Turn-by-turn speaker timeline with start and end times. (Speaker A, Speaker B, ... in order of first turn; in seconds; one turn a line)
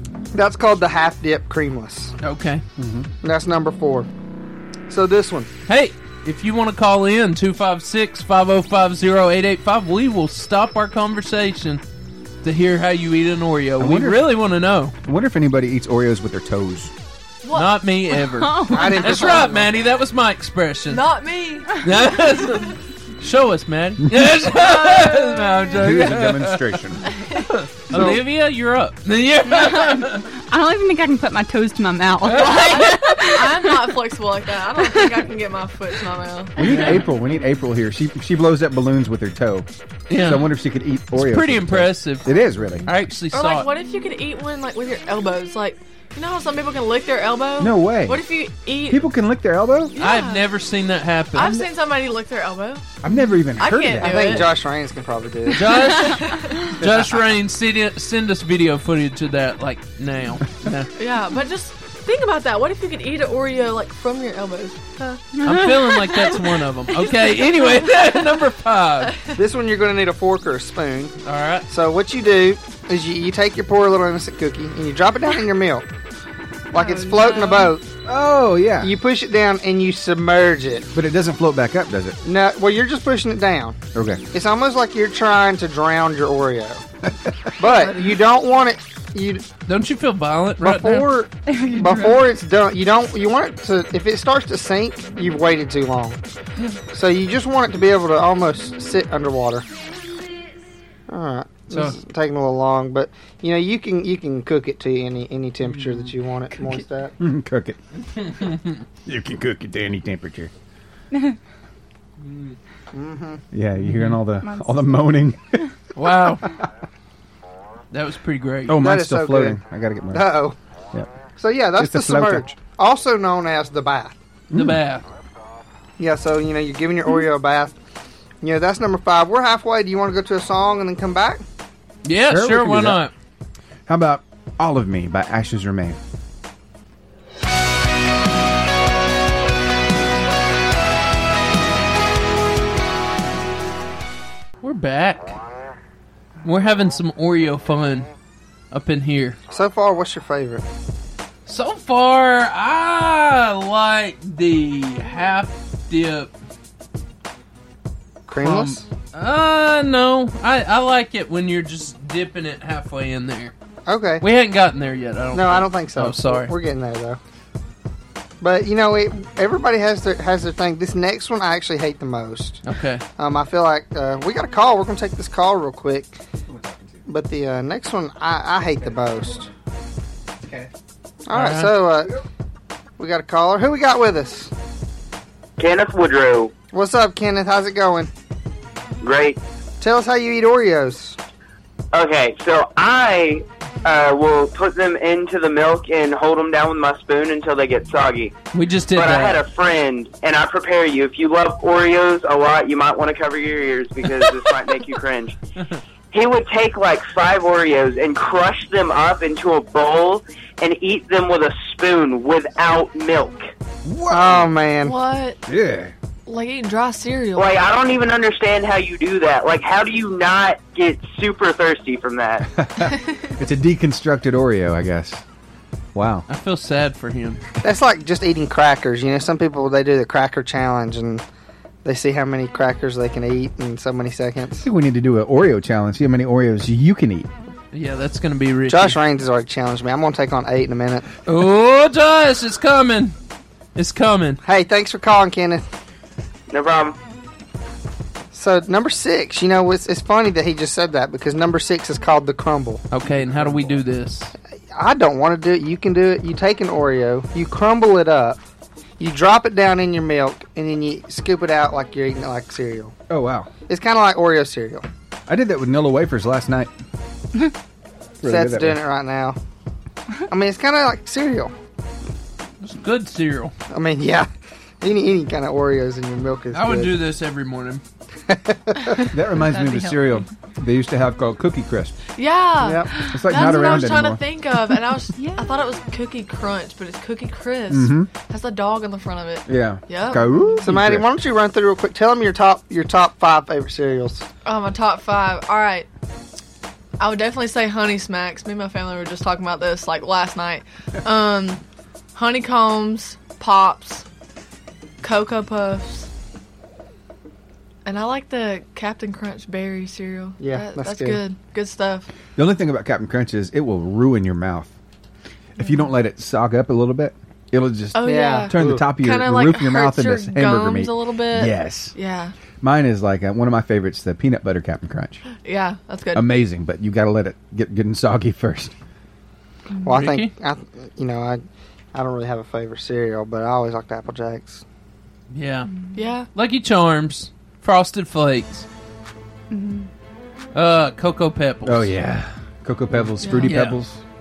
Speaker A: 0.3-2.1
Speaker B: 2.2-2.6
Speaker C: 2.8-3.1
Speaker A: 3.2-4.1
Speaker A: 4.9-5.5
Speaker B: 5.7-11.8
Speaker B: 12.4-14.9
Speaker C: 13.8-14.3
Speaker C: 15.0-16.9
Speaker D: 17.4-17.7
Speaker B: 17.5-21.0
Speaker E: 18.3-19.3
Speaker A: 18.7-19.7
Speaker D: 20.9-21.8
Speaker B: 21.8-26.8
Speaker D: 24.5-25.4
Speaker C: 25.8-27.1
Speaker B: 27.4-30.3
Speaker A: 27.9-28.2
Speaker E: 29.5-34.0
Speaker B: 32.2-33.0
Speaker D: 32.4-36.6
Speaker E: 34.8-35.2
Speaker C: 36.6-42.9
Speaker B: 36.6-37.0
Speaker B: 40.1-40.5
Speaker B: 41.1-42.3
Speaker B: 42.8-43.7
Speaker D: 43.3-49.0
Speaker C: 47.6-48.2
Speaker C: 48.9-49.9
Speaker D: 49.9-50.5
Speaker B: 50.0-51.6
Speaker D: 51.3-52.8
Speaker C: 53.0-54.5
Speaker D: 53.5-54.5
Speaker A: 54.0-55.8
Speaker B: 55.5-60.9
Speaker D: 56.0-56.7
Speaker D: 61.0-65.2
Speaker B: 65.4-69.1
Speaker D: 66.1-66.4
Speaker D: 66.9-67.7
Speaker D: 69.1-69.4
Speaker A: 69.3-71.1
Speaker B: 71.2-71.6
Speaker A: 71.7-75.8
Speaker A: 76.7-77.8
Speaker E: 76.7-77.7
Speaker C: 78.0-78.9
Speaker A: 78.8-80.9
Speaker C: 80.9-82.2
Speaker A: 82.2-83.8
Speaker C: 83.9-84.2
Speaker A: 84.3-86.8
Speaker A: 87.6-89.4
Speaker B: 89.7-91.1
Speaker A: 90.6-96.2
Speaker E: 91.5-92.2
Speaker A: 96.9-99.6
Speaker A: 101.1-107.1
Speaker B: 101.7-102.0
Speaker C: 107.2-107.8
Speaker B: 108.1-108.8
Speaker C: 109.0-110.5
Speaker B: 112.3-112.5
Speaker A: 112.9-113.4
Speaker C: 113.5-115.6
Speaker E: 114.4-114.8
Speaker B: 115.9-116.5
Speaker B: 117.9-118.8
Speaker C: 118.7-120.3
Speaker A: 118.7-119.6
Speaker A: 120.1-120.5
Speaker A: 121.4-124.2
Speaker C: 121.8-122.5
Speaker C: 124.5-124.8
Speaker B: 124.5-125.0
Speaker A: 126.0-127.8
Speaker A: 128.4-131.4
Speaker B: 132.0-133.1
Speaker C: 132.3-133.0
Speaker C: 133.9-136.0
Speaker B: 144.6-145.3
Speaker B: 146.4-148.1
Speaker B: 148.7-149.4
Speaker A: 149.5-150.6
Speaker B: 151.4-156.3
Speaker A: 158.3-158.8
Speaker B: 158.4-163.5
Speaker A: 163.8-164.2
Speaker B: 164.2-166.5
Speaker A: 165.3-167.2
Speaker A: 168.4-172.6
Speaker B: 172.6-173.0
Speaker A: 173.2-176.2
Speaker C: 176.5-177.0
Speaker A: 177.1-179.5
Speaker C: 180.4-180.7
Speaker A: 181.2-182.2
Speaker B: 181.3-181.8
Speaker A: 183.0-184.5
Speaker F: 185.6-186.5
Speaker A: 186.7-188.1
Speaker F: 189.0-189.4
Speaker A: 189.8-191.2
Speaker F: 191.9-198.3
Speaker B: 198.5-199.4
Speaker F: 198.9-205.3
Speaker F: 206.1-213.5
Speaker C: 213.8-214.5
Speaker A: 214.1-214.9
Speaker D: 214.8-215.4
Speaker C: 215.5-215.9
Speaker D: 216.2-217.6
Speaker F: 217.4-222.4
Speaker C: 222.5-225.2
Speaker C: 225.9-226.2
Speaker B: 226.3-227.4
Speaker A: 227.6-231.2
Speaker A: 231.8-234.7
Speaker C: 234.6-237.3
Speaker B: 237.7-239.0
Speaker A: 238.7-241.1
Speaker B: 241.3-243.1
Speaker B: 243.8-244.4
Speaker A: 244.4-245.7
Speaker F: 246.5-246.9
Speaker A: 248.3-252.8
Speaker B: 252.9-254.3
Speaker A: 254.7-258.4
Speaker A: 259.0-262.9
Speaker C: 263.1-263.5
Speaker A: 263.7-264.9
Speaker C: 265.3-266.7
Speaker C: 268.2-268.8
Speaker A: 268.2-269.4
Speaker A: 270.3-271.5
Speaker B: 272.6-273.5
Speaker A: 273.7-274.3
Speaker A: 274.8-277.0
Speaker B: 276.5-277.8
Speaker A: 278.3-279.0
Speaker C: 279.1-281.9
Speaker E: 279.4-280.2
Speaker D: 282.2-290.2
Speaker A: 282.6-282.9
Speaker C: 283.0-284.2
Speaker E: 285.1-285.5
Speaker C: 287.7-288.1
Speaker C: 289.5-291.1
Speaker E: 290.3-290.6
Speaker A: 290.6-294.2
Speaker D: 294.4-295.9
Speaker D: 297.0-301.6
Speaker D: 302.1-304.0
Speaker D: 305.0-306.1
Speaker D: 307.8-312.1
Speaker A: 310.4-311.2
Speaker C: 312.4-314.7
Speaker C: 315.6-321.9
Speaker D: 317.9-322.3
Speaker A: 318.0-318.9
Speaker C: 322.6-325.2
Speaker D: 325.4-326.2
Speaker C: 326.1-328.7
Speaker A: 329.8-331.4
Speaker B: 329.9-330.3
Speaker A: 331.9-334.6
Speaker B: 335.3-335.8
Speaker D: 335.9-336.3
Speaker B: 336.3-338.7
Speaker E: 339.5-339.9
Speaker B: 340.5-341.9
Speaker C: 341.6-344.0
Speaker D: 343.2-343.6
Speaker B: 343.4-343.8